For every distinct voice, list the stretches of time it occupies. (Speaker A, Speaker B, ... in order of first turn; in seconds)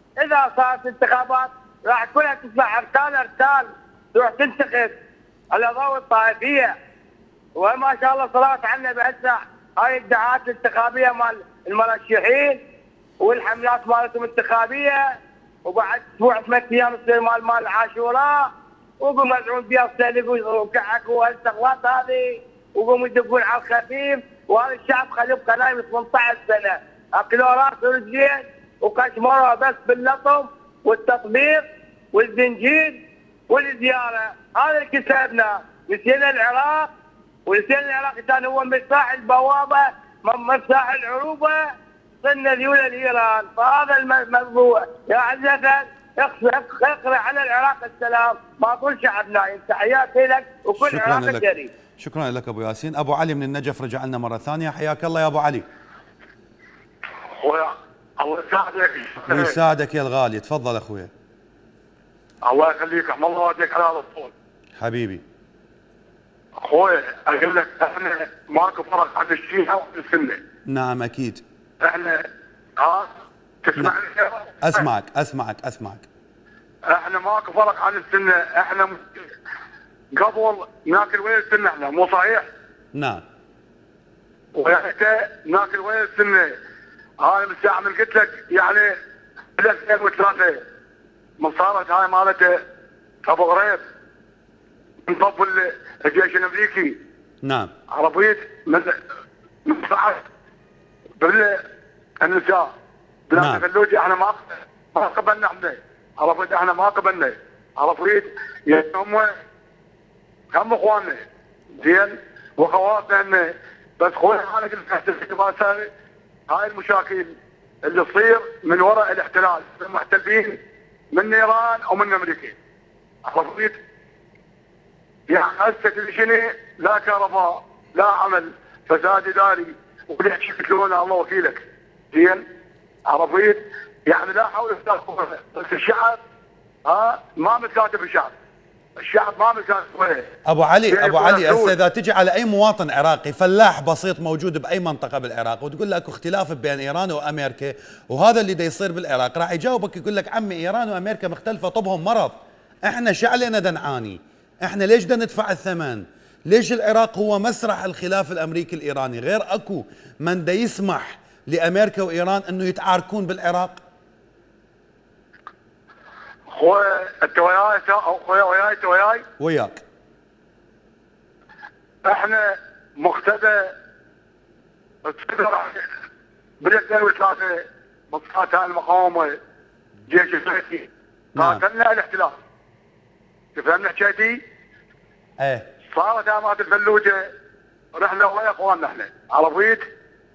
Speaker A: 0.2-4.9, 5.5-6.7, 7.6-12.6, 13.2-15.0, 15.7-18.5, 19.0-36.9, 37.5-41.6, 42.2-51.7
Speaker B: 50.8-51.5, 52.0-55.6, 59.3-61.1, 64.8-65.2, 70.7-71.4, 74.6-76.0, 82.9-83.2, 97.4-97.7, 103.3-103.6, 140.5-152.3, 152.8-163.8, 169.4-169.8, 181.3-181.6, 185.4-185.7
Speaker C: 57.4-59.5, 62.5-64.3, 66.6-70.4, 71.8-72.3, 72.8-73.1, 73.6-74.8, 76.9-79.1, 80.1-82.5, 84.5-86.5, 87.2-88.9, 89.6-90.6, 91.4-92.6, 93.2-93.8, 95.1-97.0, 97.9-98.9, 99.7-100.2, 101.2-101.6, 102.2-102.7, 103.3-109.3, 110.5-111.2, 111.8-115.9, 116.5-117.3, 117.8-120.6, 121.1-122.5, 123.2-123.8, 125.3-132.4, 133.1-136.2, 136.8-138.3, 139.0-140.3, 140.9-141.7, 166.5-169.2, 172.0-173.7, 175.0-175.8, 176.6-179.4, 180.1-182.3, 183.5-184.4, 185.9-187.2, 187.9-189.8